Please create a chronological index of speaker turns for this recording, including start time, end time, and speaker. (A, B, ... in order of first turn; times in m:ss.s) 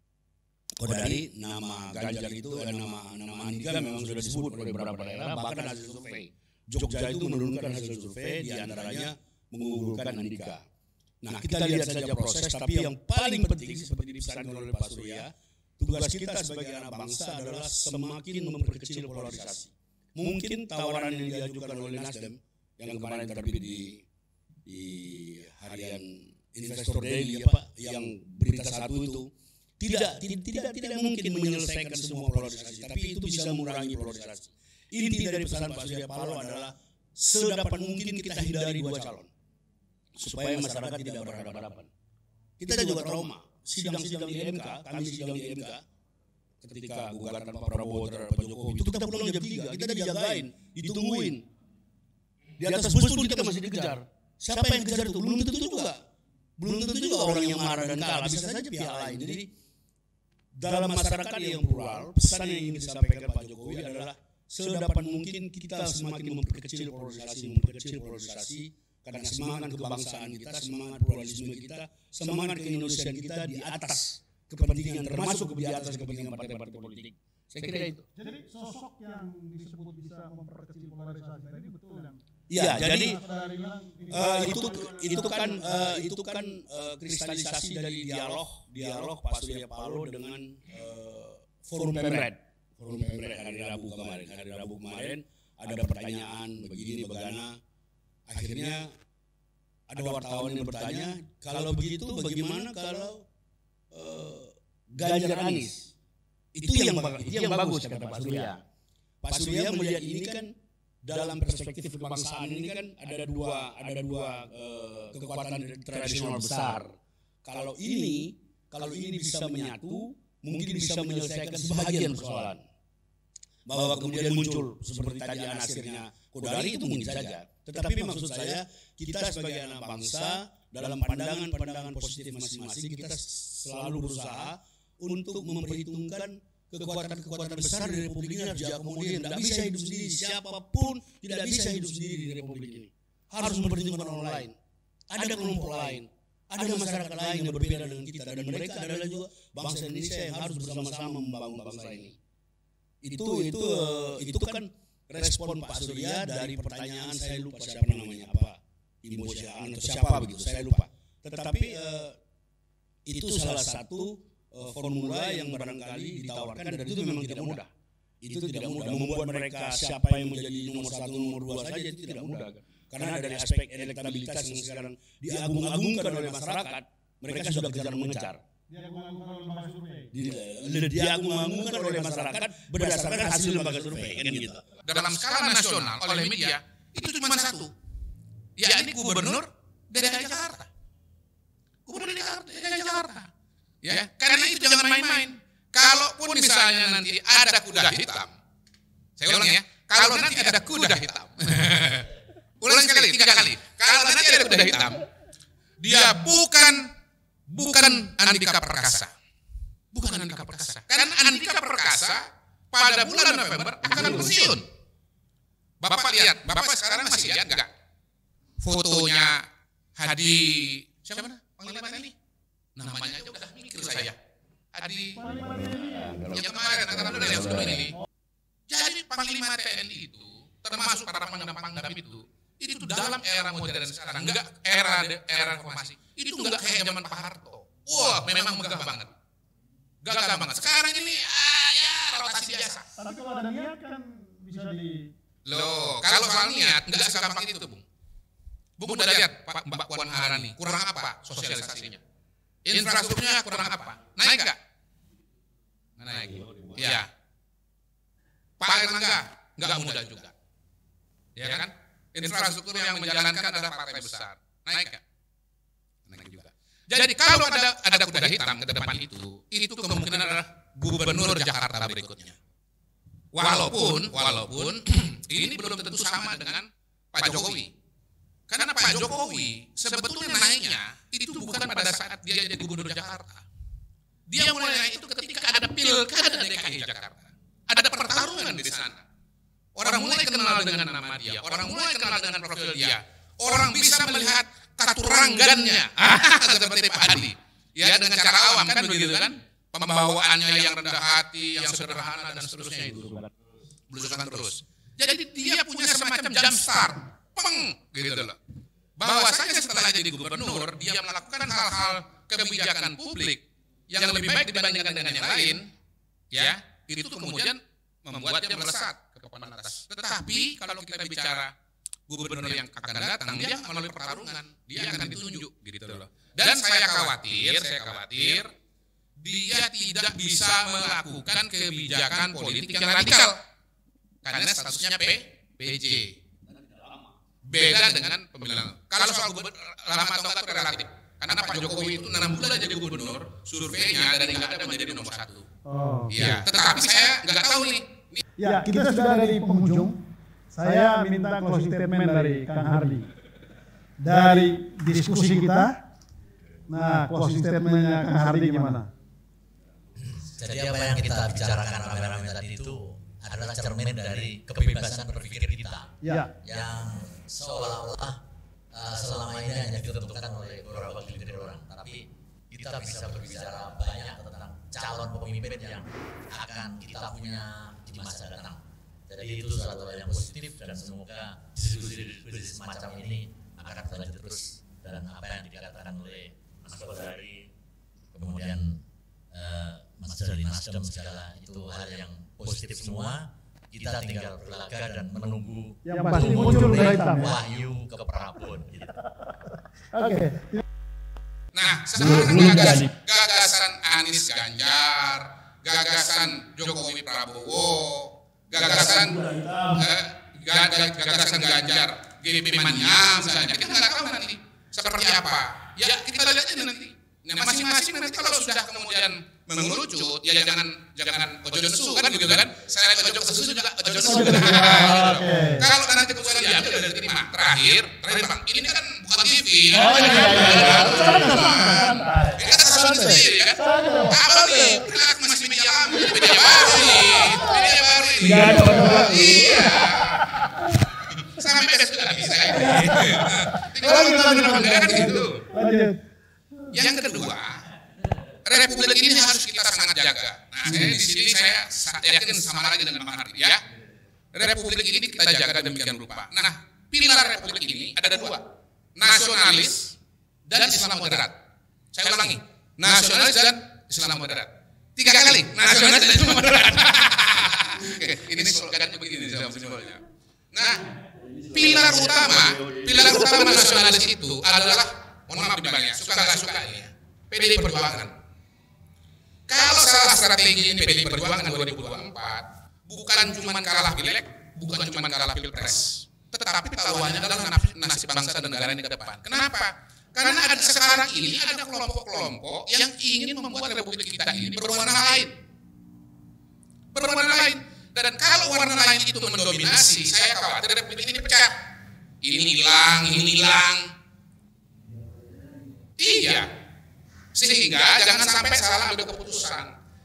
0:00.8-0:10.6 A
0:11.2-0:24.0 A
0:24.6-0:39.3 A
0:40.1-0:41.9 A
0:42.6-0:45.8 A
0:46.6-0:51.4 A
0:52.6-0:56.0 A
0:56.6-0:59.5 A
1:00.5-1:18.0 A
1:18.1-1:25.7 B
1:22.5-1:23.2 A
1:24.1-1:37.6 A
1:38.3-1:38.9 A
1:39.9-1:43.2 A
1:43.9-1:45.9 A
1:46.5-1:48.6 A
1:49.2-1:50.5 A
1:51.0-2:02.6 A
2:03.6-2:24.5 A
2:25.1-2:32.2 A
2:33.0-2:42.2 A
2:43.0-2:47.7 A
2:48.2-2:58.4 A
2:58.7-3:00.1 B
3:00.1-3:04.6 A
3:04.8-3:07.7 C
3:08.6-3:10.7 C
3:11.8-3:13.3 C
3:13.8-3:18.3 C
3:19.2-3:25.0 C
3:25.8-3:26.8 C
3:27.5-3:29.1 C
3:29.9-3:34.7 C
3:35.8-3:37.7 C
3:38.6-3:39.4 C
3:40.0-3:42.1 C
3:42.8-3:44.2 C
3:44.7-3:45.2 C
3:45.2-3:46.1 B
3:45.2-3:47.9 A
3:46.3-3:47.9 C
3:48.7-3:59.1 C
4:00.0-4:02.9 C
4:03.0-4:05.1 B
4:05.4-4:07.8 C
4:08.8-4:12.0 C
4:12.6-4:14.6 C
4:16.0-4:17.1 C
4:16.2-4:17.0 A
4:18.6-4:20.3 C
4:21.4-4:25.0 C
4:26.1-4:32.4 C
4:33.3-4:37.7 C
4:38.5-4:43.4 C
4:44.3-4:49.0 C
4:49.8-5:03.1 C
5:03.0-5:03.3 A
5:03.9-5:08.4 C
5:09.0-5:15.7 C
5:16.3-5:21.5 C
5:22.1-5:28.5 C
5:29.2-5:33.4 C
5:34.2-5:36.1 C
5:36.5-5:37.1 A
5:37.4-5:45.5 C
5:45.6-5:46.4 B
5:46.1-5:48.2 C
5:48.4-5:50.0 B
5:50.5-5:53.1 B
5:54.0-5:55.7 B
5:56.7-5:58.9 B
6:00.0-6:08.2 D
6:06.0-6:06.3 B
6:08.7-6:27.5 D
6:28.1-6:39.0 D
6:35.8-6:37.3 B
6:39.9-6:40.6 B
6:41.5-6:49.2 C
6:42.0-6:42.9 A
6:48.5-6:49.8 A
6:49.8-7:20.4 C
7:04.0-7:05.6 B
7:09.8-7:12.3 B
7:13.6-7:14.2 B
7:18.2-7:18.5 A
7:18.3-7:19.3 B
7:21.1-7:25.5 C
7:22.7-7:26.0 B
7:26.7-7:27.6 C
7:28.4-7:33.6 C
7:34.3-7:38.4 C
7:39.0-7:39.9 C
7:40.5-7:41.4 C
7:41.9-7:50.8 C
7:51.3-7:53.1 A
7:51.5-7:58.1 C
7:59.5-8:15.3 C
8:16.9-8:21.6 C
8:22.2-8:23.9 C
8:26.0-8:26.5 C
8:27.3-8:29.7 C